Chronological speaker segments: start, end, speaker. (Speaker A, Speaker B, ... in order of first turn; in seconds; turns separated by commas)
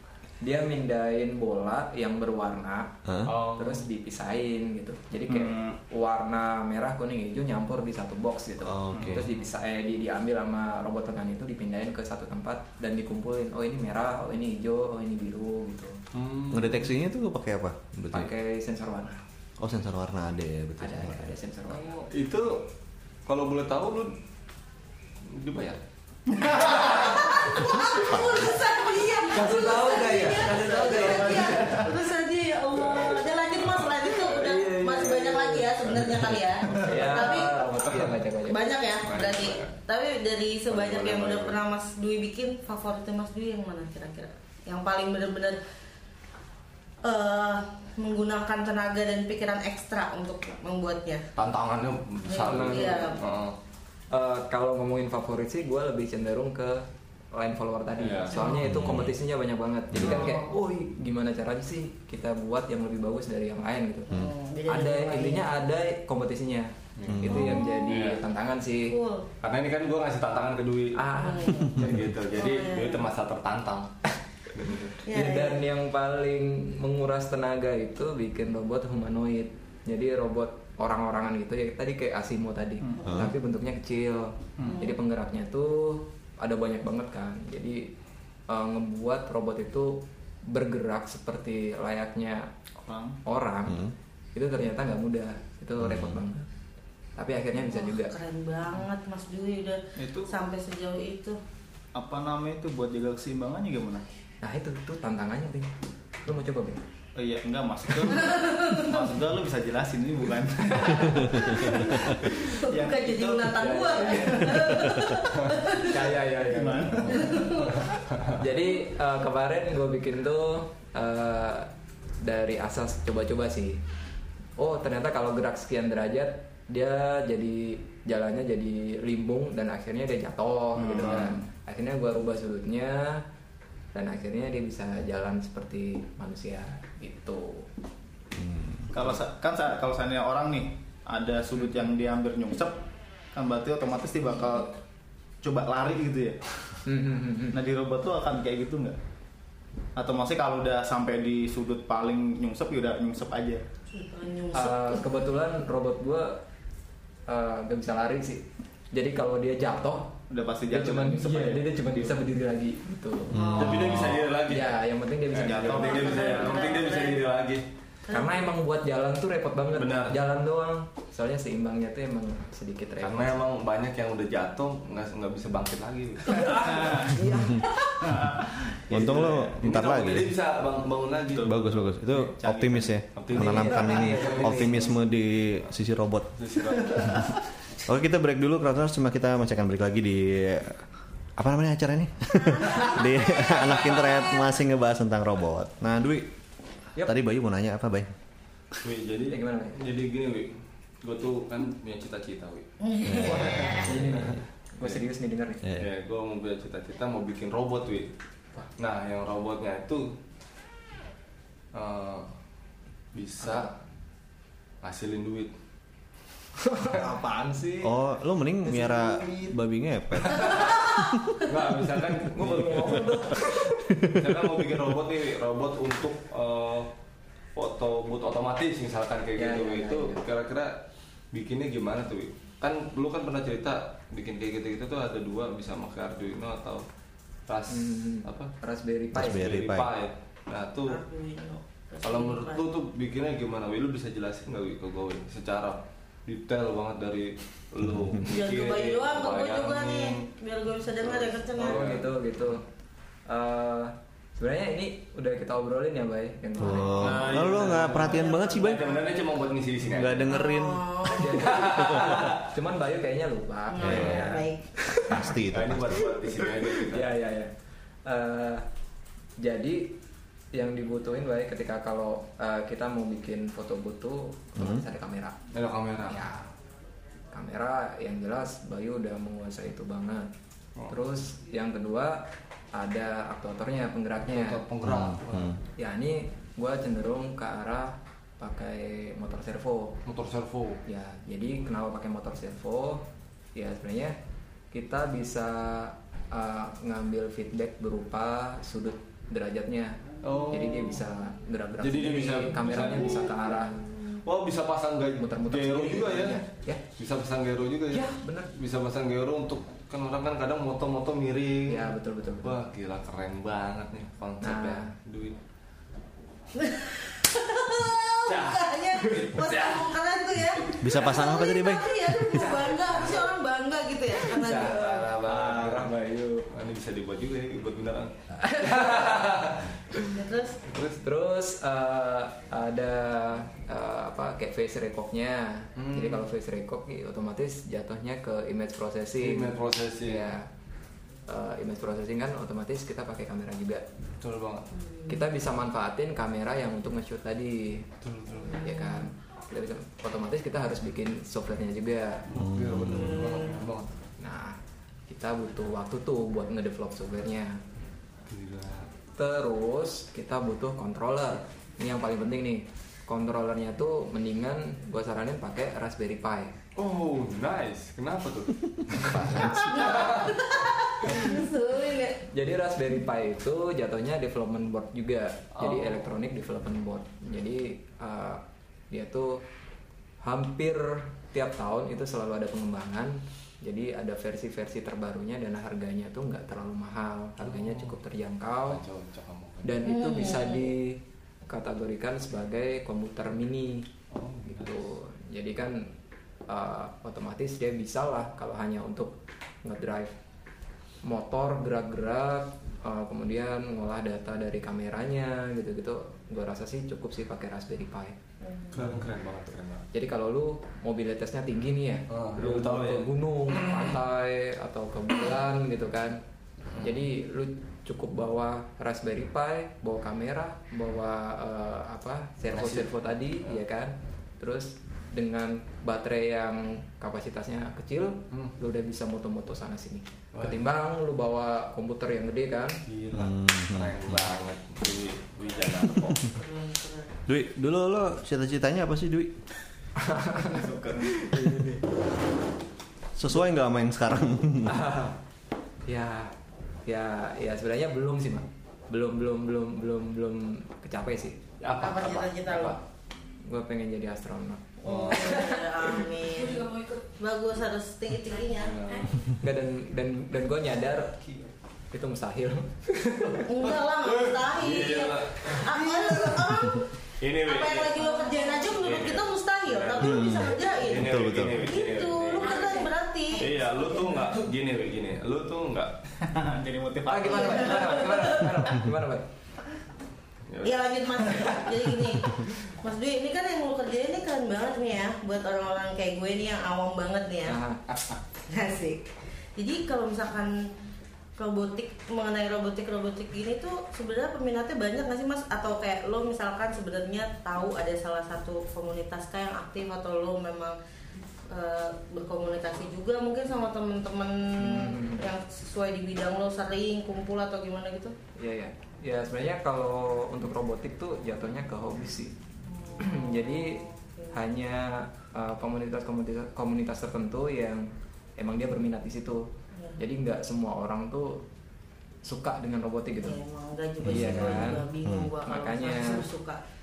Speaker A: 0.4-16.0, Speaker B: 3.0-3.3, Speaker C: 3.2-3.8, Speaker D: 5.3-5.8, Speaker B: 8.6-9.3, Speaker D: 8.9-9.2, Speaker C: 16.1-16.9, Speaker B: 16.5-18.3, Speaker A: 18.1-19.2, Speaker B: 19.6-21.3, Speaker A: 20.8-22.0, Speaker C: 21.7-22.6, Speaker C: 23.2-24.1, Speaker C: 25.3-25.8, Speaker D: 26.3-26.8, Speaker E: 26.6-37.7, Speaker C: 26.6-27.6, Speaker B: 27.9-28.5, Speaker A: 29.3-31.8, Speaker D: 31.0-31.9, Speaker C: 32.7-35.0, Speaker A: 34.3-35.7, Speaker A: 36.7-38.7, Speaker C: 37.0-37.3, Speaker C: 37.8-38.1, Speaker E: 38.4-45.6, Speaker C: 39.0-39.8, Speaker C: 40.7-41.6, Speaker E: 47.0-51.2, Speaker C: 51.4-53.5, Speaker E: 52.3-53.2, Speaker A: 52.3-53.2, Speaker A: 54.1-64.1, Speaker C: 58.0-58.5, Speaker E: 58.3-58.7, Speaker B: 58.6-59.1, Speaker B: 59.9-60.4, Speaker E: 60.0-60.5, Speaker E: 64.1-65.5, Speaker A: 64.7-68.9, Speaker C: 67.0-67.3, Speaker B: 67.1-67.6, Speaker E: 67.3-68.0, Speaker C: 67.9-68.2, Speaker E: 68.9-69.3, Speaker C: 69.4-71.0, Speaker A: 71.0-71.8, Speaker E: 71.2-71.8, Speaker C: 71.7-73.9, Speaker B: 71.8-72.1, Speaker E: 72.3-73.1, Speaker C: 74.5-74.9, Speaker E: 75.0-75.6, Speaker A: 75.1-87.9, Speaker D: 82.8-83.1, Speaker B: 83.0-83.3, Speaker E: 84.6-85.0, Speaker A: 88.5-92.5, Speaker D: 92.8-93.2, Speaker A: 93.2-96.5, Speaker B: 93.7-93.9, Speaker B: 95.8-96.2, Speaker A: 97.2-98.1, Speaker E: 97.6-101.4, Speaker D: 100.0-100.3, Speaker D: 101.9-104.0, Speaker A: 104.4-105.7, Speaker A: 106.2-106.8, Speaker D: 107.2-115.2, Speaker E: 108.2-108.9, Speaker E: 111.5-116.1, Speaker A: 113.6-114.6, Speaker B: 114.9-115.2, Speaker A: 115.7-117.4, Speaker D: 116.4-117.8, Speaker E: 117.1-117.9, Speaker A: 118.3-121.7, Speaker A: 122.2-123.8, Speaker A: 124.6-133.2, Speaker D: 130.8-131.4, Speaker A: 133.9-137.7, Speaker B: 138.3-138.9, Speaker D: 138.9-142.8, Speaker D: 143.3-144.7, Speaker D: 145.4-146.4, Speaker A: 146.8-147.6, Speaker D: 147.5-148.9, Speaker D: 149.9-153.6, Speaker E: 153.9-155.2, Speaker A: 154.5-156.4, Speaker A: 157.3-160.1, Speaker D: 160.3-162.1, Speaker A: 160.7-166.8, Speaker B: 163.3-164.1, Speaker E: 163.3-163.8, Speaker C: 163.6-164.7, Speaker C: 165.3-167.6, Speaker D: 165.4-166.4, Speaker E: 165.7-167.3, Speaker E: 168.1-168.5, Speaker A: 168.1-173.4, Speaker C: 169.7-170.2, Speaker C: 173.0-176.4, Speaker A: 176.2-178.2, Speaker D: 176.6-177.2, Speaker D: 178.0-179.5, Speaker B: 178.9-180.3, Speaker C: 178.9-181.9, Speaker D: 181.3-182.9, Speaker B: 181.4-186.3, Speaker C: 183.1-185.0, Speaker A: 183.3-185.0, Speaker C: 186.4-187.3, Speaker D: 187.0-187.3, Speaker B: 187.8-196.3, Speaker E: 192.4-193.6, Speaker B: 197.0-198.1, Speaker C: 198.8-202.7, Speaker A: 199.3-199.8, Speaker E: 202.8-204.0, Speaker B: 203.0-204.2, Speaker A: 203.2-205.6, Speaker C: 205.8-208.1, Speaker C: 208.8-210.1, Speaker C: 211.7-212.3, Speaker C: 213.1-213.7, Speaker A: 213.4-213.7, Speaker C: 214.8-215.5, Speaker A: 216.6-217.9, Speaker B: 217.8-221.4, Speaker A: 218.7-219.5, Speaker C: 220.3-220.8, Speaker C: 221.5-223.3, Speaker A: 222.3-224.2, Speaker C: 224.2-226.9, Speaker C: 227.5-230.8, Speaker A: 229.4-230.2, Speaker C: 231.3-236.8, Speaker C: 237.5-238.5, Speaker A: 237.7-239.4, Speaker B: 239.1-239.9, Speaker C: 239.2-241.0, Speaker E: 240.8-242.7, Speaker C: 242.0-250.2, Speaker B: 247.8-248.2, Speaker E: 248.2-251.9, Speaker C: 251.0-252.5, Speaker A: 251.6-252.6, Speaker A: 253.3-257.2, Speaker B: 256.6-258.9, Speaker C: 257.0-260.3, Speaker E: 257.9-259.2, Speaker B: 259.9-260.9, Speaker E: 260.3-261.7, Speaker A: 261.1-265.2, Speaker C: 261.4-262.4, Speaker B: 261.9-262.2, Speaker E: 263.7-264.6, Speaker B: 263.8-264.2, Speaker B: 265.1-266.1, Speaker C: 265.5-267.1, Speaker A: 266.9-267.5, Speaker A: 268.1-268.6, Speaker A: 269.4-269.9, Speaker A: 270.5-275.4, Speaker B: 274.6-274.8, Speaker C: 275.5-276.2, Speaker A: 276.1-276.5, Speaker A: 277.3-280.3, Speaker A: 280.9-284.6, Speaker C: 284.2-285.6, Speaker B: 284.8-285.6, Speaker A: 285.8-289.9, Speaker C: 290.1-290.8, Speaker A: 290.9-293.0, Speaker A: 293.5-294.1, Speaker A: 294.7-300.0, Speaker C: 300.2-301.0, Speaker A: 300.5-303.8, Speaker C: 301.8-303.6, Speaker C: 304.2-306.4, Speaker A: 305.2-306.8, Speaker C: 307.0-311.9, Speaker A: 307.9-308.5, Speaker A: 311.7-312.5, Speaker C: 312.4-315.4, Speaker A: 314.4-314.9, Speaker E: 316.5-325.1, Speaker C: 319.1-319.8, Speaker B: 320.8-322.4, Speaker A: 322.3-323.3, Speaker A: 324.2-326.5, Speaker C: 324.5-325.9, Speaker C: 326.5-329.9, Speaker A: 328.4-329.5, Speaker E: 329.9-330.6, Speaker C: 330.7-331.0, Speaker A: 331.0-340.5, Speaker C: 335.8-336.3, Speaker C: 339.2-340.3, Speaker A: 341.3-343.8, Speaker C: 344.2-344.7, Speaker E: 344.8-345.2, Speaker A: 345.1-347.9, Speaker C: 348.0-348.5, Speaker E: 348.3-349.1, Speaker A: 348.5-352.2, Speaker C: 352.3-353.9, Speaker B: 352.3-353.2, Speaker E: 352.8-353.6, Speaker A: 354.2-354.6, Speaker A: 355.1-357.6, Speaker C: 358.3-358.9, Speaker A: 359.1-366.6, Speaker C: 366.8-371.2, Speaker A: 369.1-369.4, Speaker E: 369.4-372.2, Speaker A: 372.3-379.4, Speaker C: 375.6-376.1, Speaker A: 380.2-388.8, Speaker C: 387.4-388.0, Speaker C: 388.7-389.7, Speaker A: 389.6-393.9, Speaker E: 389.8-390.7, Speaker C: 394.1-394.8, Speaker A: 394.4-395.9, Speaker A: 396.5-400.1, Speaker A: 401.0-408.2, Speaker E: 408.4-408.9, Speaker C: 408.7-409.9, Speaker A: 409.9-416.2, Speaker C: 412.1-413.1, Speaker C: 416.7-417.0, Speaker A: 416.8-432.8, Speaker C: 422.5-422.9, Speaker C: 430.3-430.6, Speaker C: 432.9-436.2, Speaker B: 433.1-434.3, Speaker E: 436.4-437.1, Speaker B: 437.3-439.3, Speaker A: 440.0-441.8, Speaker D: 440.4-441.3, Speaker B: 443.1-444.8, Speaker A: 444.6-445.1, Speaker A: 445.9-446.3, Speaker A: 446.9-451.4, Speaker C: 451.6-452.8, Speaker E: 451.8-452.8, Speaker A: 453.4-456.9, Speaker E: 454.8-458.8, Speaker C: 454.8-455.3, Speaker C: 458.6-459.1, Speaker A: 459.4-461.2, Speaker A: 461.9-463.5, Speaker E: 463.4-474.4, Speaker C: 463.6-465.8, Speaker C: 467.2-468.1, Speaker C: 468.7-475.9, Speaker B: 470.0-471.7, Speaker D: 476.2-478.0, Speaker A: 477.1-479.2, Speaker E: 477.2-478.8, Speaker C: 480.5-481.6, Speaker E: 480.6-487.6, Speaker A: 487.4-488.1, Speaker E: 488.5-490.7, Speaker E: 491.4-500.8, Speaker E: 501.5-508.1, Speaker A: 504.6-505.2, Speaker A: 508.4-512.4, Speaker E: 512.6-514.3, Speaker A: 513.0-519.5, Speaker A: 520.0-521.4, Speaker A: 522.2-523.4, Speaker E: 523.2-526.6, Speaker B: 524.0-525.3, Speaker A: 524.0-524.9, Speaker A: 525.4-526.2